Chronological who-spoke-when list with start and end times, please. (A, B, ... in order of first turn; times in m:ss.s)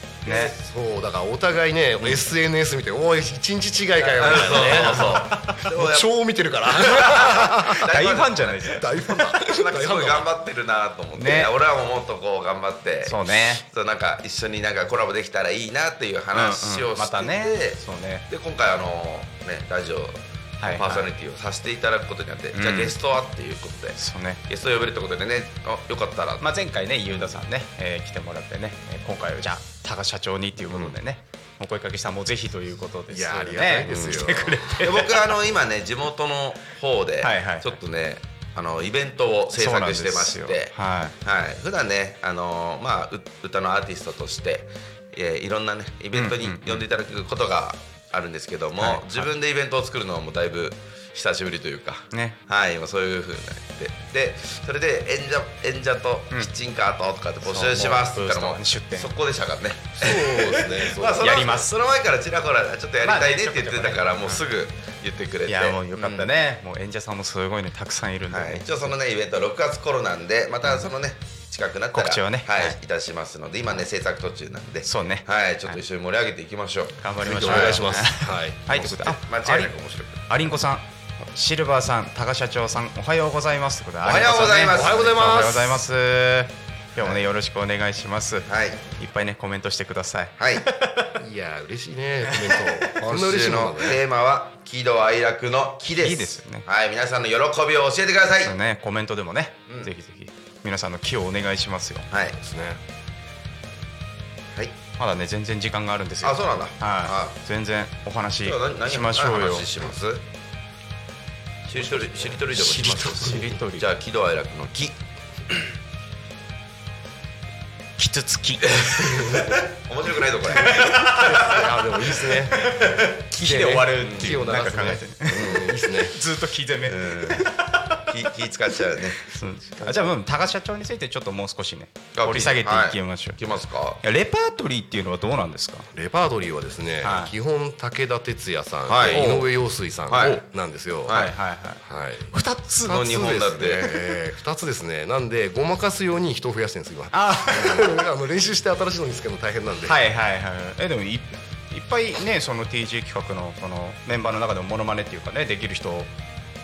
0:00.2-0:00.5 A
0:00.2-0:07.8 B
0:04.1-0:06.1 C
0:04.3-0:05.6 A
0:06.7-0:27.4 C
0:07.0-0:08.9 A
0:08.8-0:10.3 B
0:11.2-0:11.5 A
0:13.0-0:13.6 A
0:16.3-0:18.2 A
0:20.6-0:21.1 A
0:22.5-0:23.0 A
0:24.0-0:24.4 A
0:26.4-0:35.3 A
0:30.6-0:31.0 C
0:33.1-0:34.9 B
0:33.9-1:06.3 C
0:37.2-0:37.8 A
0:39.6-0:41.2 A
0:46.1-0:46.8 A
0:48.8-0:49.3 A
0:52.1-0:52.4 A
0:57.4-0:59.1 A
1:00.0-1:01.3 B
1:01.2-1:01.7 A
1:03.0-1:04.4 A
1:05.5-1:08.9 A
1:08.3-1:17.9 C
1:10.6-1:10.9 A
1:11.9-1:12.8 A
1:14.8-1:15.8 A
1:17.0-1:19.7 A
1:17.2-1:19.0 B
1:18.7-1:20.2 C
1:20.3-1:31.2 A
1:24.0-1:25.2 C
1:24.7-1:25.8 B
1:28.5-1:28.9 C
1:30.4-1:30.6 C
1:31.2-1:34.0 B
1:33.0-1:38.5 C
1:36.0-1:36.6 A
1:38.4-1:42.1 A
1:42.1-1:42.4 C
1:42.4-1:42.8 B
1:45.0-1:49.7 A
1:46.2-1:47.4 C
1:48.4-1:50.2 C
1:51.7-1:55.0 C
1:52.5-1:53.9 A
1:52.6-1:53.0 B
1:58.0-1:59.1 A
1:58.6-2:01.6 C
1:59.0-1:59.6 B
2:00.5-2:08.1 A
2:01.0-2:02.7 B
2:03.3-2:06.2 B
2:04.0-2:04.4 C
2:05.3-2:05.8 C
2:06.9-2:07.4 C
2:08.1-2:09.3 C
2:09.2-2:13.4 A
2:12.1-2:14.0 C
2:14.0-2:15.9 A
2:15.9-2:21.2 B
2:17.0-2:17.3 A
2:18.9-2:19.5 C
2:19.1-2:19.4 A
2:20.1-2:20.4 C
2:20.2-2:20.4 A
2:21.0-2:21.3 C
2:21.1-2:23.0 A
2:21.8-2:30.0 B
2:22.8-2:24.0 C
2:27.1-2:28.0 A
2:29.8-2:36.1 A